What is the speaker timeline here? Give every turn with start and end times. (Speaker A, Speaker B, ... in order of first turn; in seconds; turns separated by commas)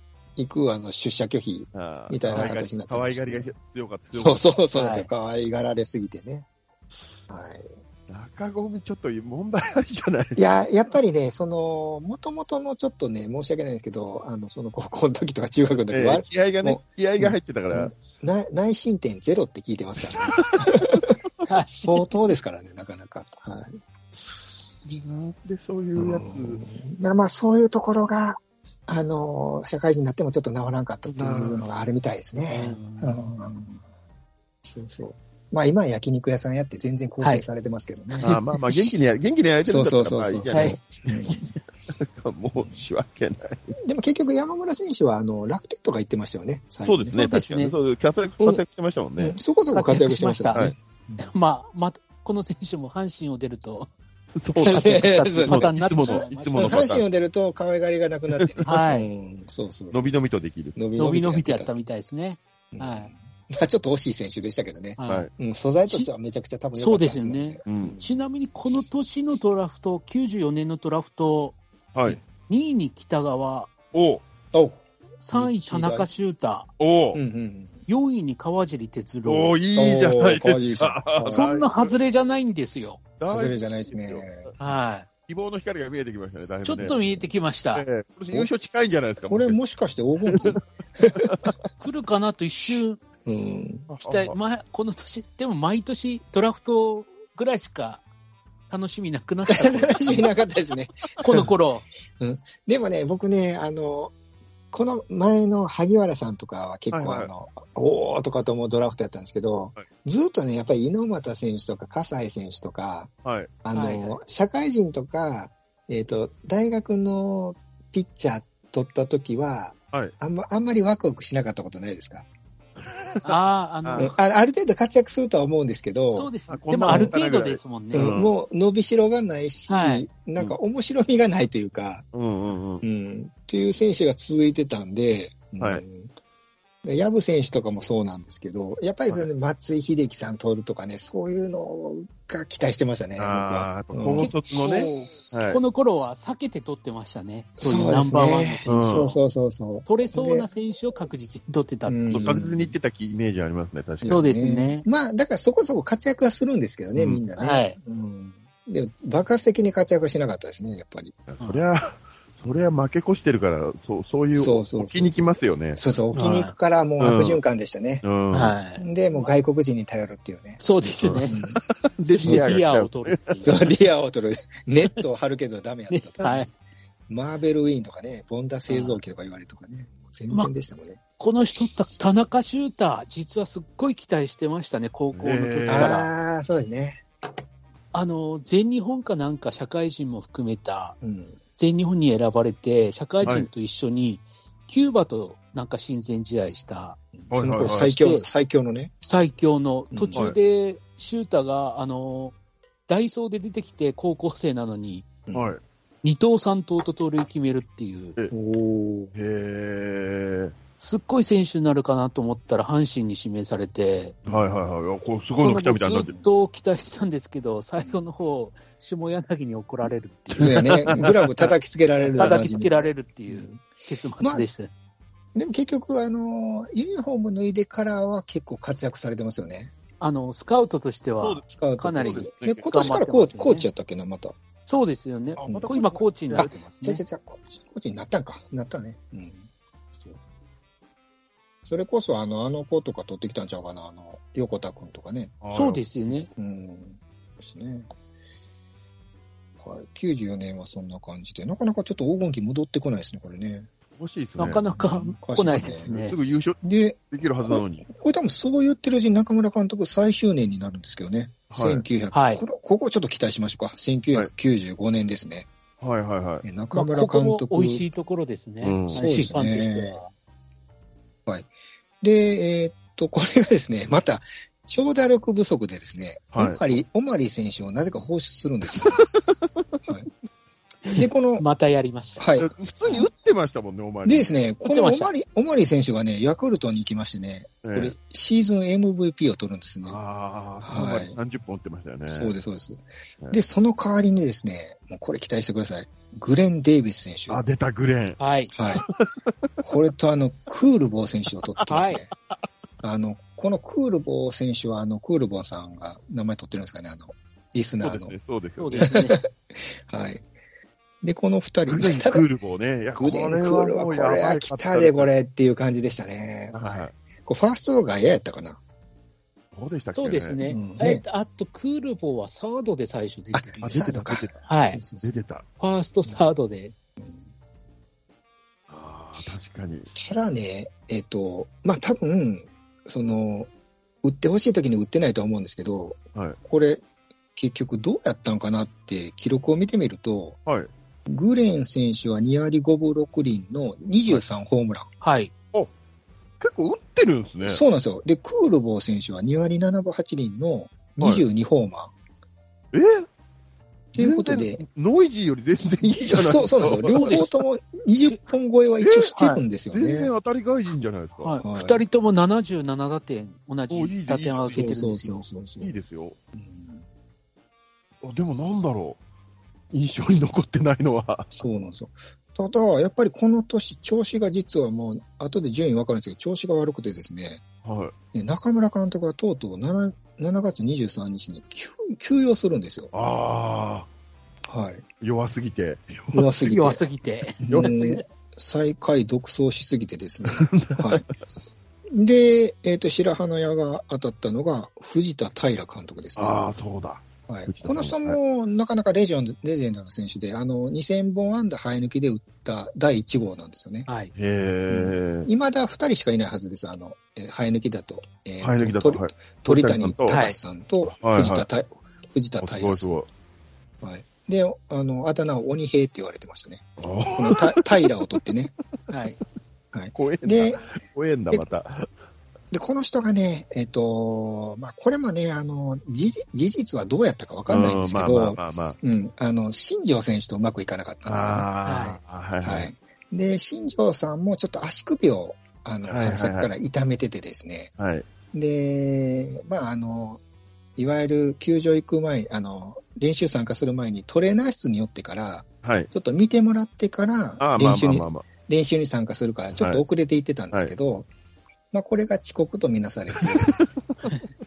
Speaker A: 0.4-3.5, Speaker B: 1.7-4.5, Speaker A: 4.1-6.5, Speaker C: 4.7-5.1, Speaker A: 7.3-7.7, Speaker B: 8.1-10.4, Speaker A: 10.3-21.1, Speaker B: 15.9-17.9, Speaker B: 20.1-21.1, Speaker C: 21.4-22.0, Speaker A: 21.7-23.8, Speaker B: 24.9-26.6, Speaker A: 25.9-33.8, Speaker B: 31.1-31.8, Speaker C: 32.5-33.2, Speaker A: 34.6-38.3, Speaker C: 38.2-38.5, Speaker B: 38.2-43.8, Speaker A: 39.6-41.3, Speaker C: 40.5-40.8, Speaker A: 43.8-47.2, Speaker B: 46.8-49.4, Speaker C: 47.1-47.7, Speaker A: 49.2-51.2, Speaker C: 49.7-53.9, Speaker B: 54.4-57.0, Speaker C: 54.6-56.8, Speaker A: 54.6-60.2, Speaker B: 58.3-58.7, Speaker C: 58.6-59.1, Speaker B: 59.9-60.8, Speaker A: 60.8-61.7, Speaker C: 61.0-63.1, Speaker A: 62.7-68.1, Speaker C: 65.0-65.3, Speaker C: 66.7-71.6, Speaker B: 67.7-68.0, Speaker B: 71.9-72.2, Speaker C: 72.5-73.7, Speaker B: 73.9-74.2, Speaker A: 74.5-76.1, Speaker C: 75.2-76.7, Speaker B: 76.8-77.2, Speaker A: 77.1-77.8, Speaker C: 77.9-79.5, Speaker B: 79.2-82.0, Speaker A: 79.8-81.5, Speaker C: 81.3-83.0, Speaker B: 83.2-84.5, Speaker A: 83.3-84.5, Speaker C: 84.6-85.1, Speaker B: 85.3-87.0, Speaker C: 86.6-87.8, Speaker A: 86.7-87.2, Speaker B: 87.7-89.6, Speaker A: 89.3-91.5, Speaker B: 90.2-90.6, Speaker B: 91.2-91.5, Speaker C: 91.8-93.0, Speaker A: 93.2-93.9, Speaker B: 93.9-94.4, Speaker C: 94.0-98.0, Speaker C: 98.7-100.3, Speaker A: 99.5-101.5, Speaker C: 101.2-101.8, Speaker A: 102.2-104.1, Speaker A: 104.7-113.1, Speaker B: 106.9-107.3, Speaker B: 113.2-113.5, Speaker A: 113.6-122.3, Speaker C: 113.7-114.2, Speaker B: 122.8-124.1, Speaker C: 123.2-124.2, Speaker A: 124.0-126.3, Speaker C: 126.1-128.2, Speaker B: 126.5-128.3, Speaker A: 126.8-127.1, Speaker A: 127.9-132.0, Speaker C: 129.7-130.1, Speaker B: 132.1-132.8, Speaker A: 132.8-136.1, Speaker A: 136.8-144.3, Speaker B: 143.2-145.6, Speaker C: 144.2-149.2, Speaker A: 147.6-150.5, Speaker B: 148.7-149.1, Speaker C: 149.8-152.3, Speaker A: 151.9-152.7, Speaker B: 152.1-154.2, Speaker A: 154.0-161.2, Speaker C: 154.1-154.8, Speaker B: 156.9-157.2, Speaker C: 157.4-157.8, Speaker B: 161.3-166.3, Speaker A: 164.3-168.0, Speaker C: 166.2-166.5, Speaker B: 167.0-167.4, Speaker B: 168.0-168.6, Speaker C: 168.3-169.3, Speaker A: 168.8-170.6, Speaker C: 170.6-171.4, Speaker B: 171.0-173.3, Speaker A: 171.3-171.6, Speaker C: 172.1-173.7, Speaker A: 172.2-172.6, Speaker A: 173.4-176.5, Speaker C: 175.9-176.5, Speaker A: 177.1-181.0, Speaker C: 178.7-179.0, Speaker C: 181.2-186.1, Speaker B: 185.1-186.0, Speaker A: 185.7-187.0, Speaker C: 187.9-190.9, Speaker A: 191.0-191.4, Speaker C: 191.6-197.0, Speaker B: 193.2-193.5, Speaker A: 197.2-198.9, Speaker B: 197.3-198.0, Speaker C: 197.6-198.2, Speaker C: 199.0-202.3, Speaker A: 199.9-200.3, Speaker C: 202.9-205.1, Speaker A: 205.3-205.5, Speaker B: 205.3-205.6, Speaker C: 206.0-208.2, Speaker A: 208.3-209.1, Speaker B: 209.1-210.5, Speaker C: 210.8-214.2, Speaker B: 214.2-216.2, Speaker C: 215.4-221.1, Speaker B: 220.4-221.4, Speaker A: 220.4-223.6, Speaker C: 222.1-224.7, Speaker A: 224.2-224.5, Speaker A: 225.3-229.7, Speaker C: 230.0-233.7, Speaker B: 231.2-231.4, Speaker A: 231.5-234.4, Speaker B: 232.0-232.7, Speaker C: 234.7-237.0, Speaker B: 235.4-236.5, Speaker A: 235.4-235.7, Speaker A: 236.3-240.2, Speaker A: 241.6-245.3, Speaker B: 245.4-245.8, Speaker C: 245.5-246.3, Speaker A: 246.4-247.9, Speaker A: 249.6-253.7, Speaker B: 254.0-254.6, Speaker C: 254.4-256.1, Speaker A: 254.7-255.9, Speaker B: 255.6-256.6, Speaker A: 256.6-265.5, Speaker B: 257.1-257.9, Speaker B: 261.5-261.8, Speaker C: 262.1-262.4, Speaker B: 265.8-266.4, Speaker A: 266.4-267.9, Speaker C: 266.7-270.1, Speaker B: 268.6-269.0, Speaker A: 268.9-270.0, Speaker A: 272.0-279.0, Speaker B: 276.3-276.6, Speaker B: 278.7-279.2, Speaker C: 280.8-282.3, Speaker A: 280.9-281.4, Speaker A: 282.2-282.5, Speaker B: 282.4-284.4, Speaker A: 284.0-290.0, Speaker C: 284.6-285.1, Speaker B: 287.6-287.9, Speaker B: 289.8-292.4, Speaker A: 290.6-291.1, Speaker A: 292.1-297.4, Speaker B: 297.3-299.1, Speaker C: 298.2-298.5, Speaker A: 298.5-298.8, Speaker A: 299.6-302.1, Speaker C: 301.7-302.0, Speaker A: 302.8-308.1, Speaker B: 307.8-309.0, Speaker C: 308.6-309.2, Speaker A: 308.8-310.2, Speaker A: 311.0-312.3, Speaker B: 311.7-315.1, Speaker A: 312.9-318.6, Speaker B: 316.5-316.9, Speaker B: 319.5-320.4, Speaker C: 319.9-323.9, Speaker A: 320.4-321.0, Speaker A: 323.3-325.1, Speaker B: 323.6-324.4, Speaker C: 324.4-324.8, Speaker B: 325.0-325.4, Speaker C: 325.6-326.7, Speaker B: 328.7-329.9, Speaker A: 329.9-333.5, Speaker A: 334.0-336.8, Speaker A: 337.4-340.4, Speaker A: 341.1-344.9, Speaker C: 345.0-345.3, Speaker B: 346.4-347.6, Speaker A: 347.4-351.9, Speaker B: 352.7-353.1, Speaker A: 353.9-354.6, Speaker B: 354.0-357.3, Speaker A: 356.1-360.1, Speaker C: 356.9-357.3, Speaker B: 358.8-361.3, Speaker C: 361.2-365.3, Speaker A: 361.4-361.8, Speaker B: 363.7-364.7, Speaker A: 364.5-365.7, Speaker B: 365.6-366.2, Speaker A: 366.3-366.8, Speaker B: 368.0-369.0, Speaker B: 369.7-371.4, Speaker A: 371.4-377.4, Speaker B: 377.6-377.9, Speaker A: 378.1-382.9, Speaker B: 382.9-383.9, Speaker A: 384.5-384.8, Speaker B: 385.0-386.4, Speaker A: 386.1-386.9, Speaker C: 386.2-388.0, Speaker A: 387.4-391.0, Speaker B: 387.5-387.8, Speaker B: 390.2-391.1, Speaker A: 391.9-396.4, Speaker B: 396.1-398.2, Speaker A: 397.3-403.9, Speaker C: 403.9-404.1, Speaker B: 404.1-405.3, Speaker A: 404.7-412.9, Speaker B: 408.4-410.2, Speaker C: 410.1-410.4, Speaker B: 410.8-411.4, Speaker B: 412.4-413.1, Speaker A: 413.8-418.5, Speaker B: 416.8-417.9, Speaker C: 418.9-419.2, Speaker A: 419.7-420.6, Speaker B: 419.9-421.9, Speaker A: 422.5-431.5, Speaker B: 427.5-428.8, Speaker B: 431.1-432.7, Speaker C: 431.6-432.0, Speaker A: 432.4-437.7, Speaker B: 435.9-436.5, Speaker B: 437.8-438.1, Speaker A: 438.3-440.2, Speaker A: 440.8-451.1, Speaker B: 445.6-445.9, Speaker B: 447.4-448.2, Speaker B: 449.6-449.8, Speaker A: 451.7-453.5, Speaker B: 453.1-453.6